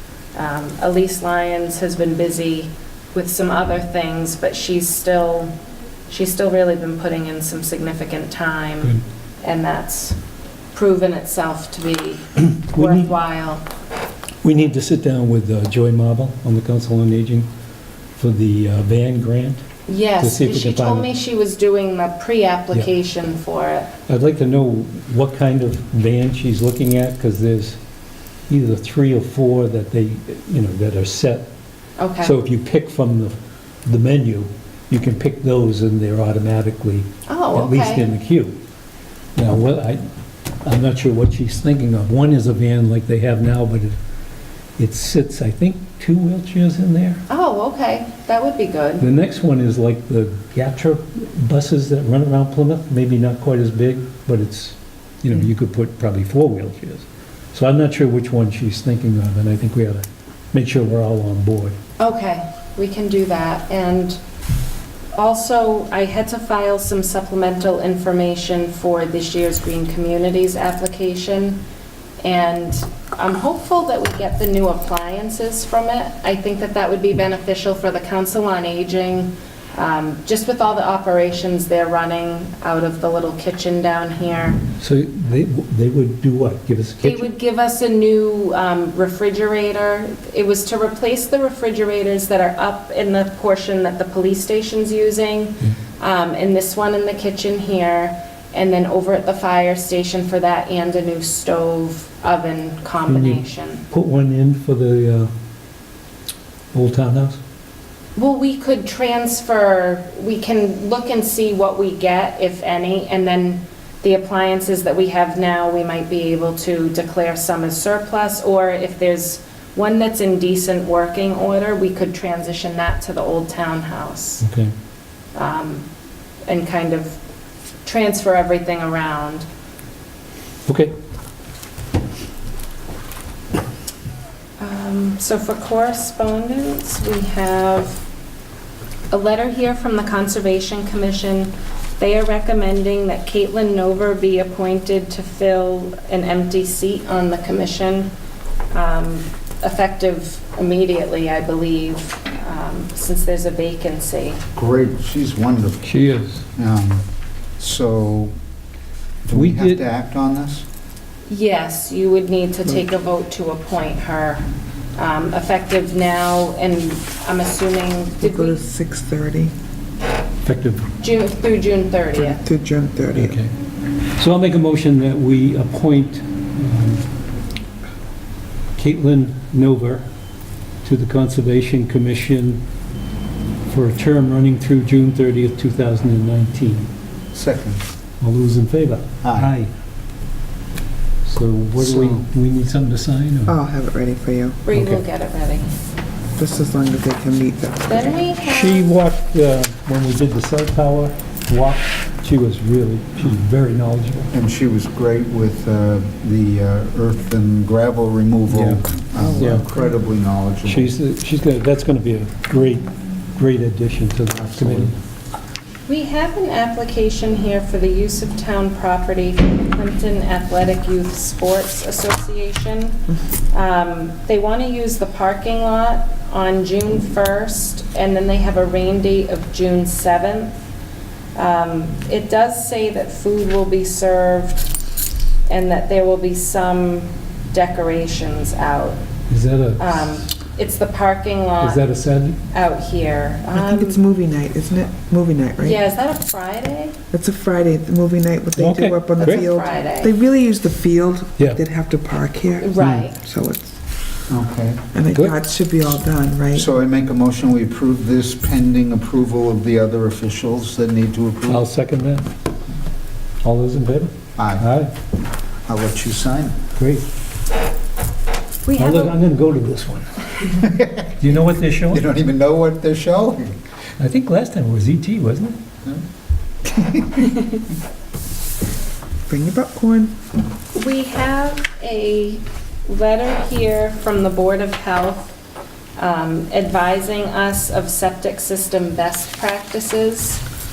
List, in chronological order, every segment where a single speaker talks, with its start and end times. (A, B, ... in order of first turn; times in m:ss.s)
0:00.4-0:05.5 A
0:06.1-0:10.2 A
0:10.7-0:13.6 A
0:12.7-0:13.1 B
0:14.4-0:17.5 B
0:18.2-0:19.6 B
0:19.9-0:23.9 A
0:20.2-0:21.1 B
0:24.1-0:27.8 B
0:28.5-0:31.5 B
0:32.0-0:32.3 A
0:32.2-0:38.6 B
0:37.3-0:38.1 A
0:39.4-0:40.0 B
0:40.6-0:44.0 B
0:44.8-0:47.2 B
0:47.3-0:49.0 A
0:49.0-1:01.8 B
1:02.0-1:04.2 A
1:05.2-1:11.6 A
1:12.2-1:24.6 A
1:24.8-1:27.3 B
1:27.0-1:43.8 A
1:43.1-1:45.3 B
1:46.7-1:47.4 B
1:48.2-2:04.4 A
2:04.4-2:04.7 B
2:05.4-2:05.9 A
2:06.5-2:07.2 A
2:07.8-2:09.5 A
2:10.7-2:10.9 B
2:14.6-2:18.0 A
2:19.1-2:28.1 A
2:28.7-2:34.4 A
2:34.6-2:35.9 C
2:35.8-2:36.4 B
2:36.6-2:37.0 C
2:37.6-2:38.3 C
2:39.3-2:40.6 C
2:39.3-2:39.8 B
2:41.3-2:44.4 A
2:45.0-2:48.6 A
2:48.2-2:49.5 D
2:50.4-2:50.9 B
2:51.0-2:52.4 A
2:52.2-2:53.4 D
2:53.1-2:53.5 B
2:54.2-2:57.0 B
2:58.8-3:00.0 B
3:00.8-3:02.6 B
3:03.7-3:06.9 B
3:07.3-3:07.8 C
3:08.2-3:09.7 B
3:09.2-3:09.5 C
3:11.3-3:13.6 B
3:11.8-3:12.2 C
3:13.5-3:14.6 D
3:14.6-3:15.7 A
3:14.7-3:15.0 B
3:16.4-3:18.3 D
3:17.9-3:18.9 A
3:18.4-3:24.3 B
3:24.3-3:30.9 C
3:28.5-3:28.8 B
3:29.2-3:29.9 D
3:29.4-3:29.6 B
3:30.6-3:34.9 B
3:34.4-3:34.9 C
3:35.9-3:43.0 A
3:43.5-3:50.5 A
3:51.4-3:54.7 A
3:55.5-3:59.0 A
3:59.3-4:00.1 B
3:59.8-4:01.8 A
4:01.6-4:02.4 B
4:02.5-4:04.0 A
4:03.5-4:05.8 D
4:05.6-4:07.0 A
4:07.1-4:13.8 D
4:08.6-4:09.4 B
4:09.2-4:10.1 A
4:12.6-4:13.2 A
4:12.8-4:13.1 B
4:14.3-4:14.8 C
4:14.9-4:16.7 D
4:16.6-4:21.7 C
4:21.5-4:22.3 B
4:23.4-4:24.9 B
4:24.4-4:24.6 C
4:25.7-4:26.6 C
4:26.8-4:27.0 B
4:28.7-4:29.2 A
4:28.8-4:30.3 B
4:30.6-4:31.0 C
4:31.2-4:32.0 B
4:31.9-4:33.6 C
4:34.0-4:35.6 B
4:36.7-4:37.2 C
4:39.3-4:40.1 D
4:40.7-4:45.4 A
4:46.0-4:50.4 A